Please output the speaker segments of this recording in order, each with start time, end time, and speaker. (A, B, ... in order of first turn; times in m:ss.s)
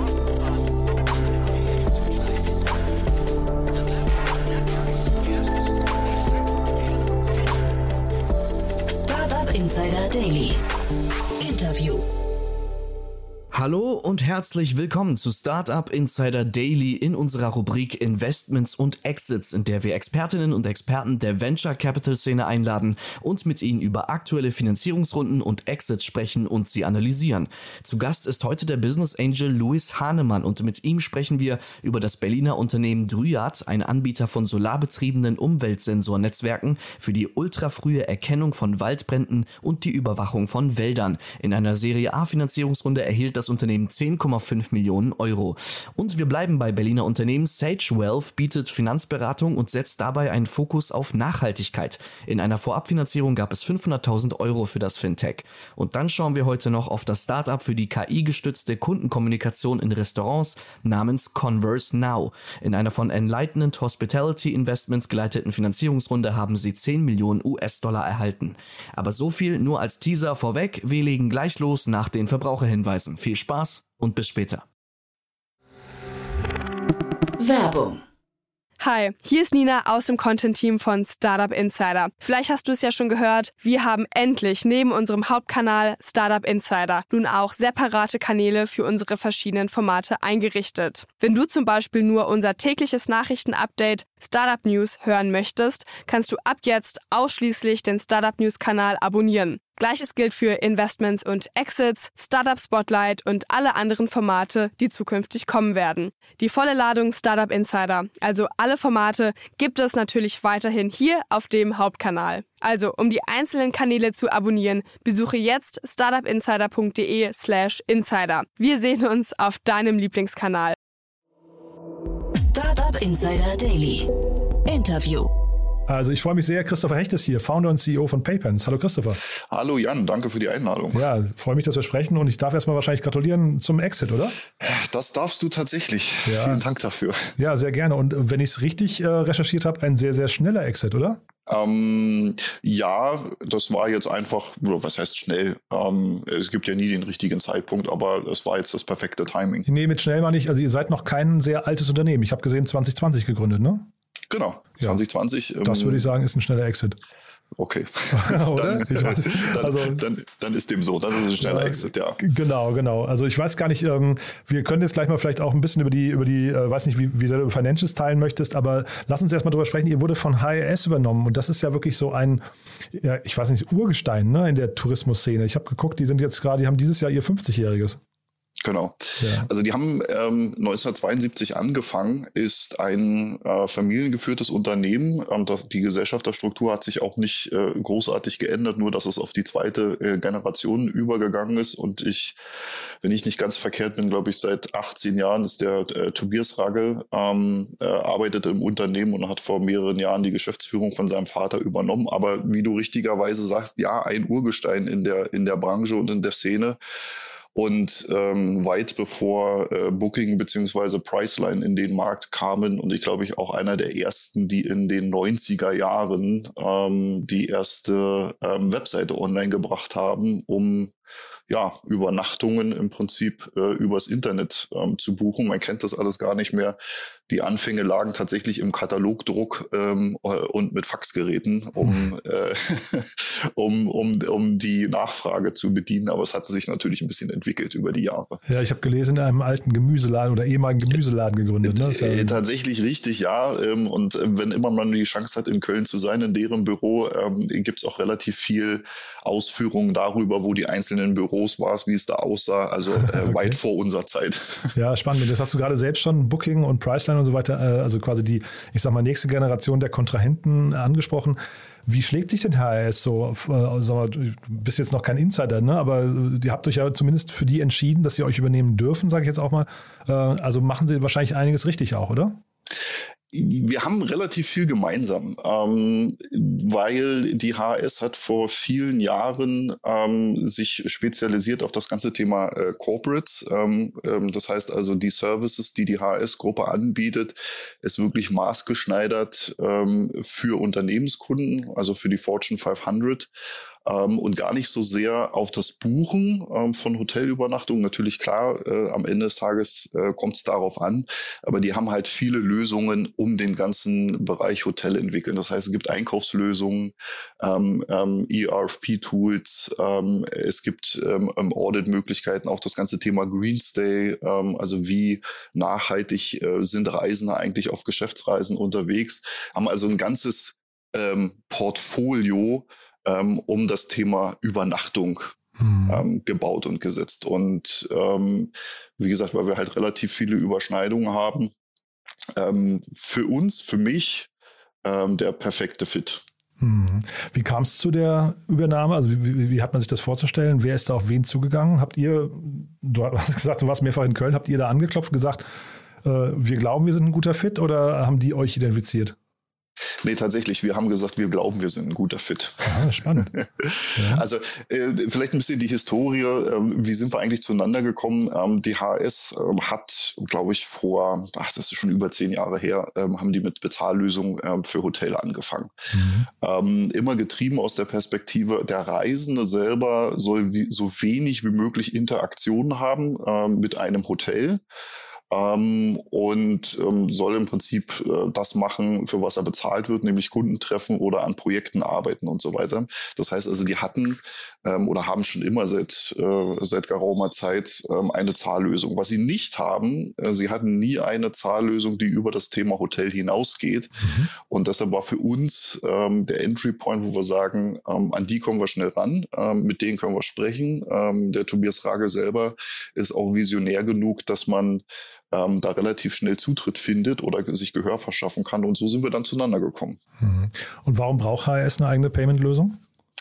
0:08.9-0:10.6 A
0:11.4-0:12.1 A
0:13.5-1:14.6 B
1:17.4-1:18.0 A
1:18.8-2:00.7 C
2:02.3-2:04.1 A
2:04.6-2:05.3 A
2:05.9-2:09.2 D
2:09.4-2:11.0 E
2:10.9-2:14.4 D
2:14.6-2:17.3 E
2:16.2-2:16.6 D
2:17.4-2:21.2 D
2:21.5-2:29.7 E
2:29.7-2:33.9 D
2:34.3-2:36.1 E
2:35.6-2:37.0 D
2:37.6-2:42.2 E
2:38.1-2:40.0 D
2:41.4-2:58.0 D
2:58.6-3:12.4 E
2:59.2-2:59.5 D
3:13.0-3:26.8 E
3:27.6-3:40.9 E
3:41.5-3:58.4 E
3:58.5-4:02.4 D
4:01.6-4:14.7 E
4:13.0-4:13.6 D
4:14.8-4:32.4 D
4:33.3-4:53.3 E
4:53.8-5:25.4 E
5:25.6-5:26.0 D
5:25.9-5:31.5 E
5:32.4-5:34.3 E
5:34.8-5:36.2 E
5:36.6-5:45.4 D
5:46.0-5:49.2 D
5:50.0-6:05.7 E
5:52.6-5:53.3 D
5:53.9-5:54.2 D
6:05.9-6:06.3 D
6:06.3-6:14.6 E
6:15.3-6:50.0 E
6:34.0-6:34.3 D
6:50.2-6:52.8 D